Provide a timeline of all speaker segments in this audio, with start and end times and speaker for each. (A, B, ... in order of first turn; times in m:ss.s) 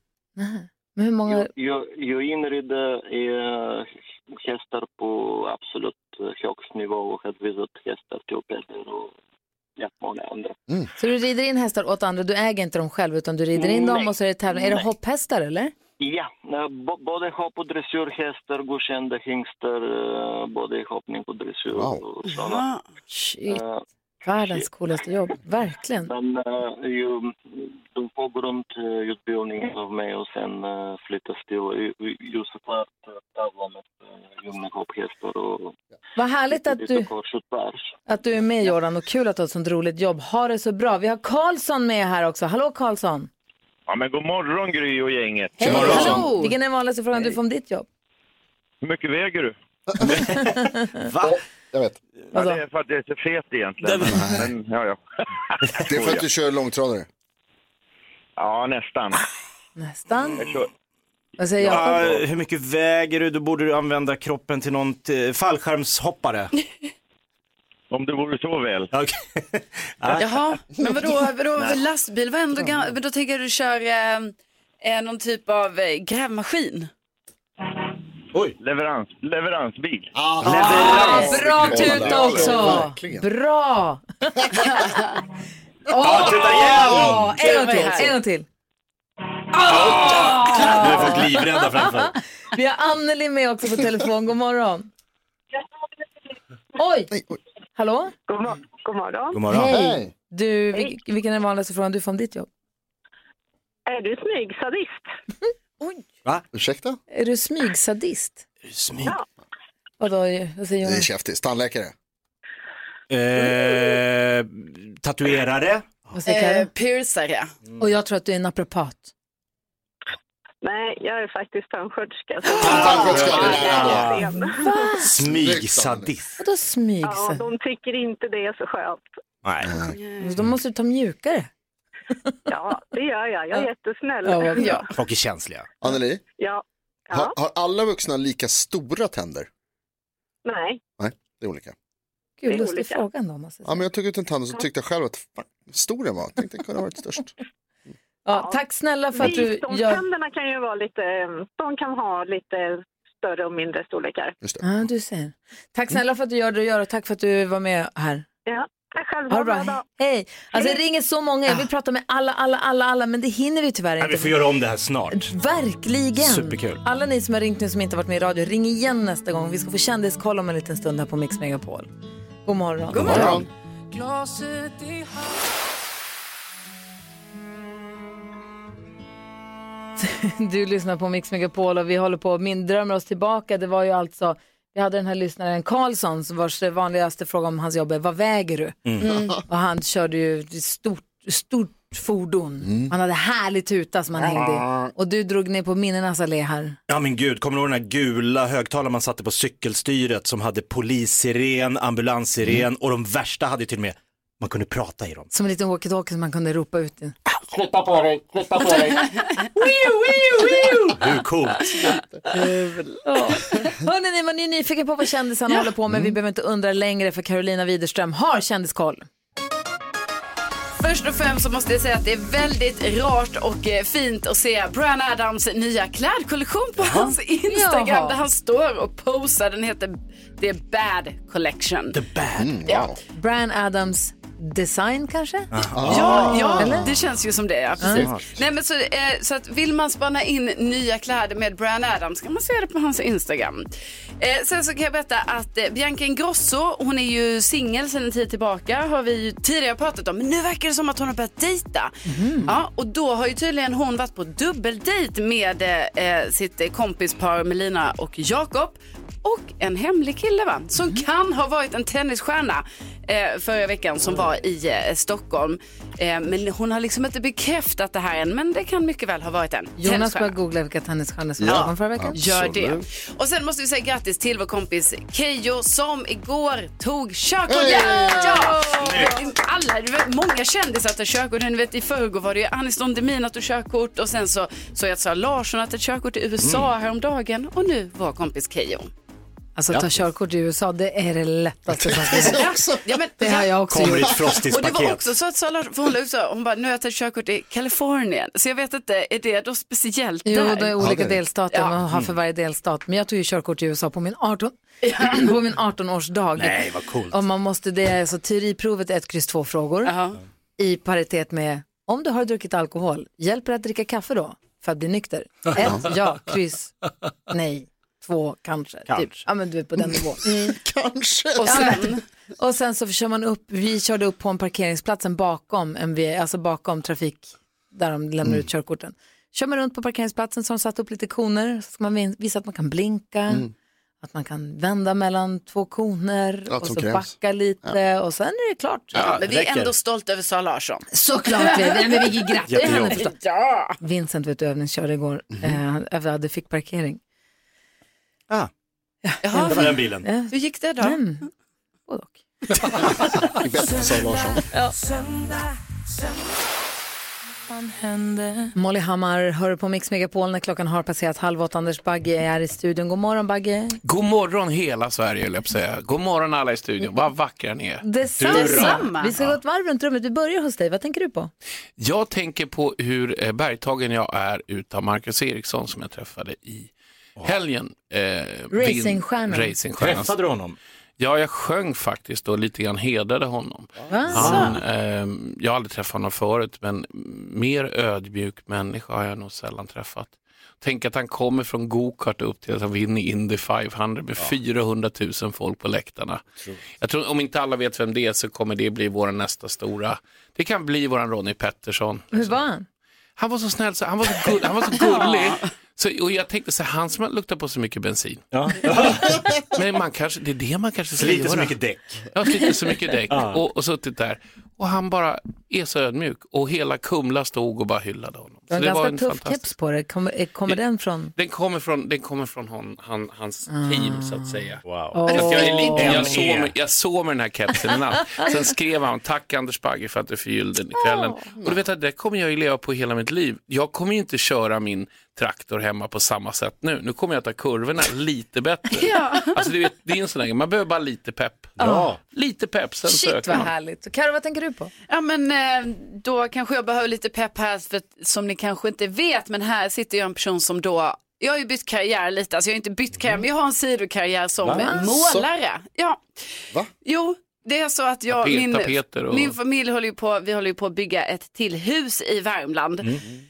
0:00.4-0:01.5 A
0:01.2-0:09.1 B
0:09.8-0:10.6 B
0:11.0-0:15.7 A
0:13.5-0:14.8 B
0:16.0-0:22.7 B
0:21.7-0:22.0 C
0:22.4-0:22.8 D
0:23.1-0:23.6 A
0:23.5-0:23.8 B
0:24.2-0:26.1 A
0:26.0-0:35.8 B
0:36.2-0:37.1 A
0:36.5-0:37.9 B
0:38.1-0:43.3 A
0:43.9-0:46.2 E
0:45.6-0:47.8 A
0:45.6-0:46.3 C
0:45.6-0:46.2 F
0:48.8-0:49.6 E
0:49.9-0:50.3 C
0:50.1-0:51.4 F
0:50.4-0:51.0 A
0:51.2-0:52.0 C
0:52.3-0:55.0 E
0:52.3-0:52.6 A
0:54.1-0:54.4 C
0:55.8-0:56.2 E
0:55.8-0:57.1 C
0:58.4-0:59.2 E
0:59.8-1:00.4 A
1:00.4-1:00.7 E
1:01.4-1:02.0 A
1:01.6-1:06.5 F
1:07.9-1:08.9 E
1:08.9-1:10.3 F
1:10.2-1:16.9 D
1:18.6-1:20.1 E
1:20.1-1:23.2 C
1:20.4-1:22.8 F
1:20.6-1:24.9 A
1:25.9-1:28.4 A
1:26.0-1:27.4 F
1:26.6-1:26.8 D
1:27.4-1:28.1 D
1:29.6-1:34.9 A
1:29.6-1:32.1 F
1:36.8-1:37.1 A
1:37.1-1:37.4 C
1:37.8-1:38.1 A
1:38.3-1:39.4 G
1:39.3-1:39.7 F
1:39.5-1:42.5 A
1:39.7-1:40.1 C
1:43.9-1:45.1 G
1:46.5-1:47.0 C
1:47.1-1:48.4 A
1:48.7-1:49.1 F
1:50.0-1:51.1 A
1:50.8-1:51.9 C
1:53.1-1:55.8 F
1:56.1-1:56.7 A
1:56.2-1:57.5 D
1:57.8-1:59.1 A
2:00.6-2:04.9 G
2:02.6-2:04.2 C
2:02.6-2:04.2 F
2:04.4-2:05.1 A
2:05.0-2:06.4 F
2:05.1-2:06.1 C
2:06.4-2:07.4 A
2:07.0-2:09.1 G
2:09.4-2:09.8 F
2:09.6-2:10.0 C
2:10.2-2:11.5 A
2:12.5-2:14.9 G
2:14.2-2:14.8 A
2:14.6-2:14.8 D
2:14.9-2:15.7 F
2:15.8-2:16.2 C
2:16.4-2:17.4 G
2:17.1-2:19.5 C
2:20.4-2:20.8 G
2:21.0-2:21.7 C
2:22.4-2:23.8 A
2:22.5-2:23.0 G
2:23.6-2:27.3 C
2:28.2-2:30.0 A
2:29.1-2:34.3 G
2:34.6-2:38.2 A
2:38.5-2:39.8 G
2:39.3-2:44.4 A
2:44.0-2:45.3 F
2:45.1-2:51.9 A
2:46.2-2:46.8 F
2:52.4-2:53.4 A
2:52.9-2:53.5 C
2:53.0-2:53.3 D
2:53.0-2:53.4 F
3:00.0-3:08.8 A
3:08.8-3:09.1 F
3:09.1-3:09.4 C
3:09.4-3:16.8 A
3:12.6-3:12.9 C
3:14.2-3:14.9 C
3:16.9-3:25.3 F
3:25.3-3:27.1 A
3:29.6-3:32.4 F
3:31.9-3:32.5 C
3:33.0-3:39.1 A
3:40.8-3:52.0 D
3:46.8-3:47.1 F
3:47.5-3:48.2 A
3:51.9-3:52.6 F
3:52.4-3:53.0 C
3:52.6-3:52.9 D
3:53.1-3:55.5 A
3:55.5-3:56.3 F
3:55.7-3:56.9 C
3:55.9-4:03.7 D
3:56.2-3:56.9 A
3:57.8-3:58.0 A
3:57.8-3:58.2 C
3:57.8-3:58.4 F
4:04.2-4:30.3 D
4:12.0-4:12.5 A
4:29.8-4:32.2 A
4:31.4-4:32.8 C
4:31.5-4:48.9 D
4:37.5-4:38.6 C
4:38.0-4:38.6 A
4:38.8-4:39.2 F
4:46.4-4:46.7 F
4:49.6-4:52.4 A
4:49.7-4:50.0 F
4:51.7-4:53.0 C
4:52.1-4:53.6 D
4:53.2-4:54.1 A
4:53.7-4:55.1 F
4:54.5-5:00.8 D
5:00.2-5:09.9 A
5:00.8-5:01.1 F
5:01.9-5:02.1 F
5:04.8-5:05.2 D
5:06.4-5:07.2 F
5:09.8-5:10.2 D
5:10.6-5:16.7 A
5:15.6-5:15.9 C
5:17.3-5:20.2 A
5:18.9-5:19.2 F
5:20.2-5:21.9 C
5:21.4-5:22.0 D
5:21.4-5:33.5 A
5:34.0-5:39.0 A
5:36.5-5:37.1 C
5:38.9-5:39.7 F
5:39.0-5:42.1 D
5:40.9-5:43.1 A
5:42.5-5:43.0 F
5:42.9-5:43.8 D
5:43.8-5:47.0 A
5:49.0-5:51.2 A
5:49.2-5:51.0 D
5:49.4-5:50.0 F
5:51.9-5:52.8 A
5:53.3-5:54.4 C
5:58.5-6:03.8 A
6:03.8-6:07.8 H
6:07.8-6:11.3 A
6:08.2-6:09.3 F
6:08.2-6:09.1 D
6:11.8-6:20.2 H
6:18.5-6:19.6 A
6:19.8-6:20.6 F
6:21.0-6:36.2 H
6:23.9-6:24.4 A
6:24.1-6:24.6 F
6:24.2-6:24.5 D
6:36.8-6:42.4 H
6:42.1-6:42.6 A
6:43.2-6:51.6 H
6:44.8-6:45.4 D
6:48.3-6:49.4 F
6:51.0-6:52.1 F
6:52.1-6:59.5 H
6:53.1-6:53.4 F
6:58.5-7:01.1 A
7:01.2-7:23.5 H
7:03.5-7:04.4 A
7:04.6-7:06.5 F
7:04.9-7:06.1 A
7:05.1-7:06.0 D
7:18.7-7:19.4 D
7:21.6-7:22.0 F
7:21.6-7:21.9 A
7:22.8-7:24.7 A
7:24.9-7:36.2 D
7:34.4-7:34.7 F
7:34.8-7:35.2 C
7:36.8-7:42.9 D
7:38.1-7:39.4 H